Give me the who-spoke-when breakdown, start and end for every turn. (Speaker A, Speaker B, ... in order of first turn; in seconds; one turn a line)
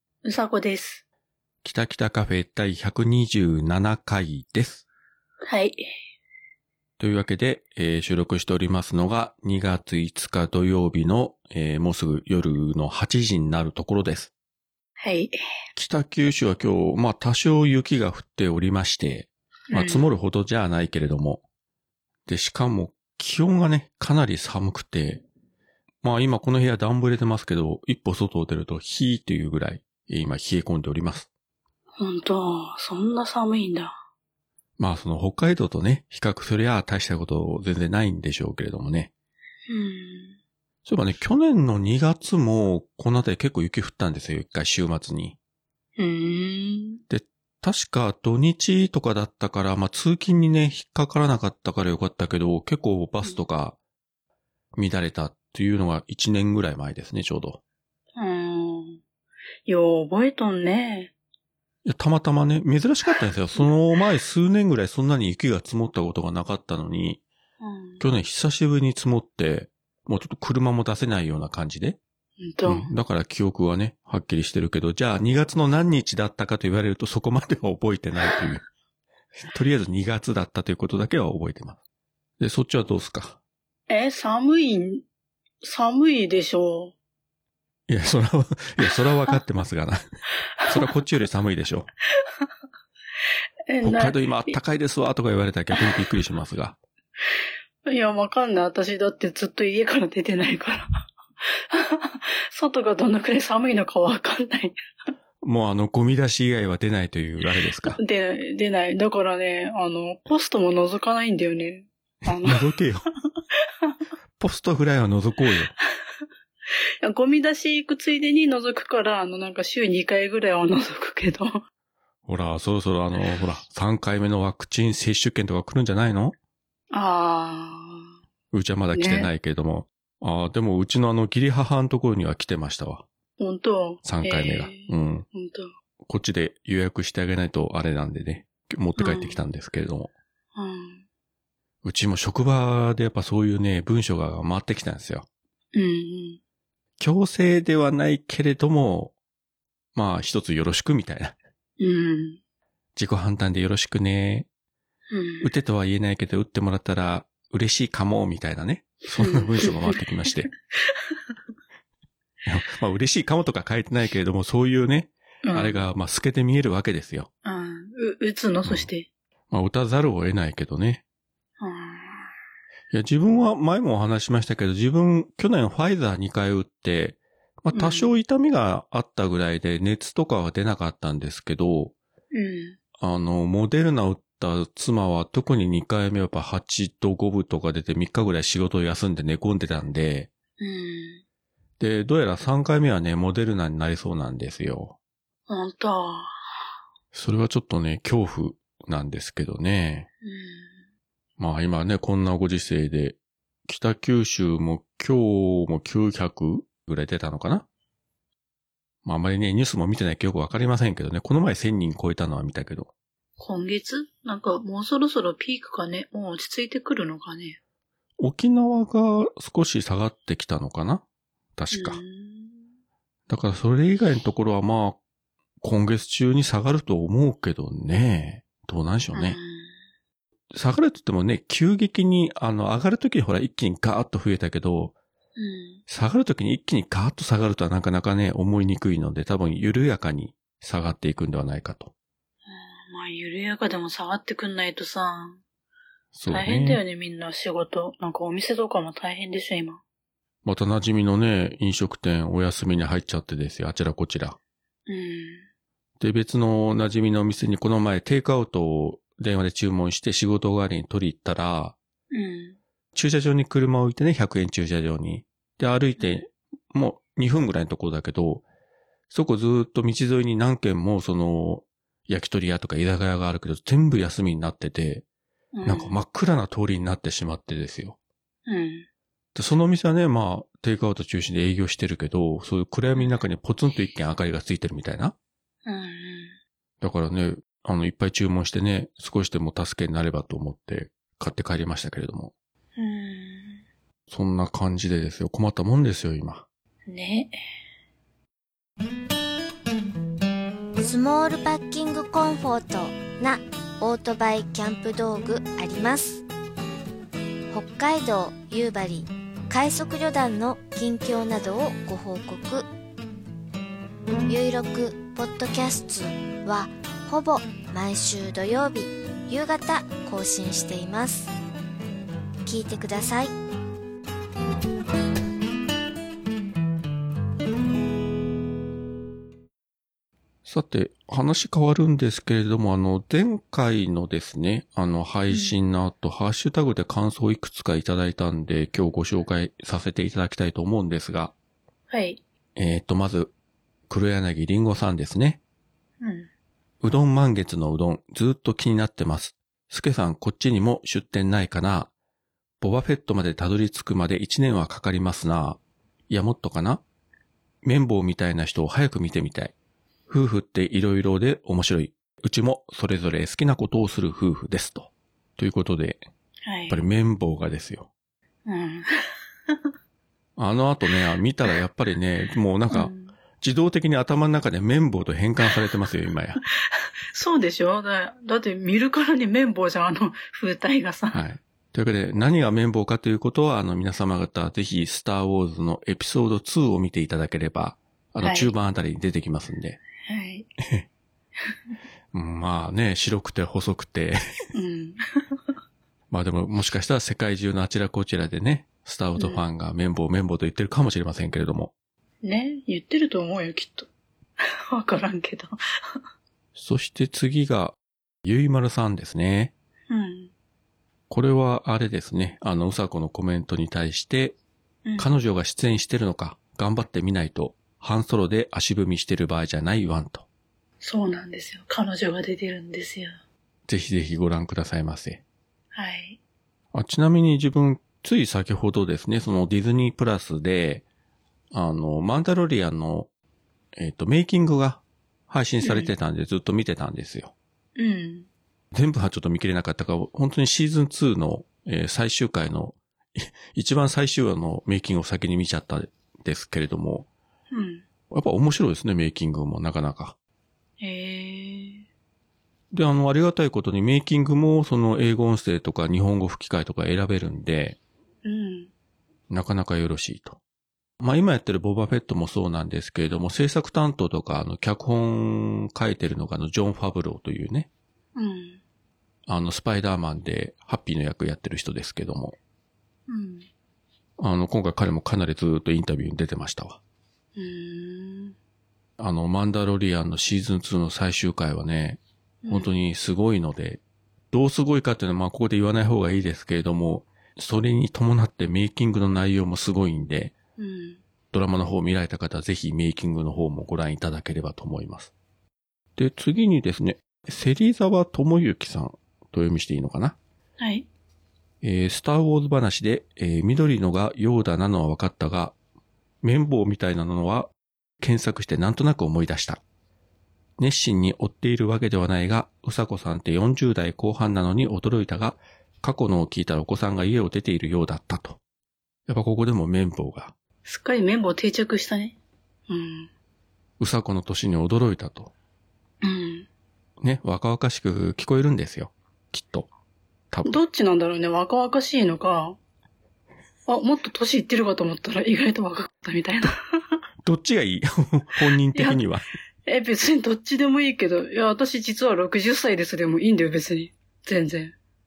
Speaker A: 0.2-1.0
Speaker B: 1.6-4.8
Speaker A: 5.4-5.8
Speaker B: 7.0-14.3
Speaker A: 15.0-15.3
Speaker B: 15.8-21.4
Speaker A: 19.7-20.0
Speaker B: 22.2-25.2
Speaker B: 26.0-31.3
Speaker A: 32.0-34.0
Speaker B: 34.8-39.1
Speaker A: 39.7-40.4
Speaker B: 40.9-45.4
Speaker A: 46.0-47.0
Speaker B: 47.1-53.8
Speaker B: 54.7-57.6
Speaker A: 58.1-59.0
Speaker A: 59.6-61.1
Speaker B: 61.8-67.2
Speaker A: 67.6-68.0
Speaker B: 68.0-72.0
Speaker A: 72.4-72.9
Speaker B: 72.7-78.6
Speaker B: 79.4-81.8
Speaker B: 82.4-83.4
Speaker A: 83.9-85.0
Speaker A: 85.6-86.9
Speaker B: 87.9-90.0
Speaker B: 90.7-91.9
Speaker A: 93.7-94.5
Speaker B: 93.8-96.8
Speaker A: 97.9-100.9
Speaker A: 101.7-104.8
Speaker B: 105.4-108.0
Speaker A: 107.8-112.6
Speaker B: 112.4-113.0
Speaker B: 114.4-115.7
Speaker A: 117.0-121.6
Speaker B: 122.2-126.3
Speaker A: 126.9-128.1
Speaker B: 128.5-133.0
Speaker A: 128.9-129.3
Speaker A: 133.4-135.7
Speaker B: 134.0-135.2
Speaker B: 136.0-140.1
Speaker A: 139.0-139.4
Speaker A: 140.6-141.0
Speaker B: 141.8-145.2
Speaker A: 145.7-146.4
Speaker B: 147.0-149.1
Speaker B: 149.9-151.3
Speaker A: 151.8-152.4
Speaker B: 152.9-154.5
Speaker A: 155.1-155.5
Speaker B: 155.4-160.5
Speaker A: 159.2-159.9
Speaker B: 162.4-167.3
Speaker A: 165.4-165.8
Speaker A: 167.4-169.1
Speaker B: 169.5-171.0
Speaker A: 171.6-172.3
Speaker B: 172.9-181.9
Speaker A: 177.7-178.1
Speaker A: 182.3-182.8
Speaker B: 183.0-190.3
Speaker A: 190.6-191.2
Speaker B: 191.8-194.9
Speaker A: 195.5-196.3
Speaker B: 197.1-200.1
Speaker A: 200.2-200.8
Speaker B: 201.4-207.7
Speaker B: 209.0-212.9
Speaker A: 213.4-217.6
Speaker B: 218.2-221.0
Speaker B: 221.6-222.0
Speaker A: 221.7-222.6
Speaker B: 223.3-225.0
Speaker B: 225.6-229.4
Speaker A: 229.1-229.7
Speaker B: 230.5-234.9
Speaker A: 235.4-235.8
Speaker B: 235.9-241.9
Speaker A: 242.5-245.4
Speaker B: 246.1-246.8
Speaker A: 246.3-249.8
Speaker B: 250.4-254.4
Speaker A: 254.9-255.4
Speaker B: 256.0-261.8
Speaker A: 262.1-262.6
Speaker B: 262.9-268.4
Speaker B: 269.1-275.0
Speaker A: 275.5-276.0
Speaker B: 275.6-278.0
Speaker A: 278.5-278.9
Speaker B: 279.3-285.1
Speaker A: 285.6-286.4
Speaker B: 286.8-292.3
Speaker A: 292.8-293.6
Speaker B: 294.1-296.4
Speaker A: 296.9-297.3
Speaker C: 300.8-306.2
Speaker C: 307.5-312.7
Speaker C: 314.3-321.3
Speaker C: 322.4-323.3
Speaker B: 330.4-341.3
Speaker A: 335.3-335.5
Speaker A: 341.9-342.2
Speaker B: 342.6-343.3
Speaker B: 343.9-345.4
Speaker A: 346.0-346.3
Speaker B: 346.8-351.9
Speaker B: 352.6-356.8
Speaker B: 357.6-359.5
Speaker B: 360.1-366.0
Speaker A: 366.4-366.8
Speaker B: 366.7-367.9
Speaker A: 368.5-368.9
Speaker B: 370.4-376.4
Speaker A: 372.7-373.1
Speaker A: 377.1-381.2
Speaker B: 381.1-389.8
Speaker A: 388.2-388.5
Speaker A: 390.1-390.5
Speaker B: 392.1-394.2
Speaker A: 394.5-395.0
Speaker B: 396.1-401.7
Speaker A: 399.2-399.4
Speaker A: 402.2-403.9
Speaker A: 404.7-405.6
Speaker B: 406.5-409.5
Speaker A: 409.9-410.3
Speaker B: 411.1-414.4
Speaker B: 415.0-420.2
Speaker A: 420.8-423.2
Speaker B: 423.7-425.2
Speaker A: 425.7-426.2
Speaker B: 426.7-430.8
Speaker B: 431.5-433.1
Speaker B: 433.8-437.3
Speaker A: 435.6-435.9
Speaker A: 437.8-438.3
Speaker B: 438.7-447.1
Speaker A: 447.5-447.8
Speaker B: 448.1-450.1
Speaker A: 450.8-451.8
Speaker B: 452.7-457.8
Speaker A: 458.2-458.7
Speaker B: 459.3-460.4
Speaker B: 461.0-467.7
Speaker A: 468.1-468.6
Speaker B: 469.3-472.4
Speaker A: 473.1-473.5
Speaker B: 474.2-476.8
Speaker A: 477.4-478.3
Speaker B: 479.0-490.3
Speaker A: 482.4-482.7
Speaker A: 490.6-491.0
Speaker B: 491.3-495.1
Speaker B: 495.9-500.2
Speaker A: 500.6-500.9
Speaker B: 501.6-505.5
Speaker B: 506.2-509.6
Speaker B: 510.6-518.4
Speaker B: 519.1-520.3
Speaker A: 520.6-522.2
Speaker A: 522.7-523.1
Speaker B: 523.8-525.3
Speaker A: 526.0-526.5
Speaker B: 527.0-529.7
Speaker B: 530.3-530.6
Speaker A: 530.5-532.6
Speaker A: 533.7-536.5
Speaker B: 537.2-539.2
Speaker A: 538.7-539.0
Speaker A: 539.6-544.7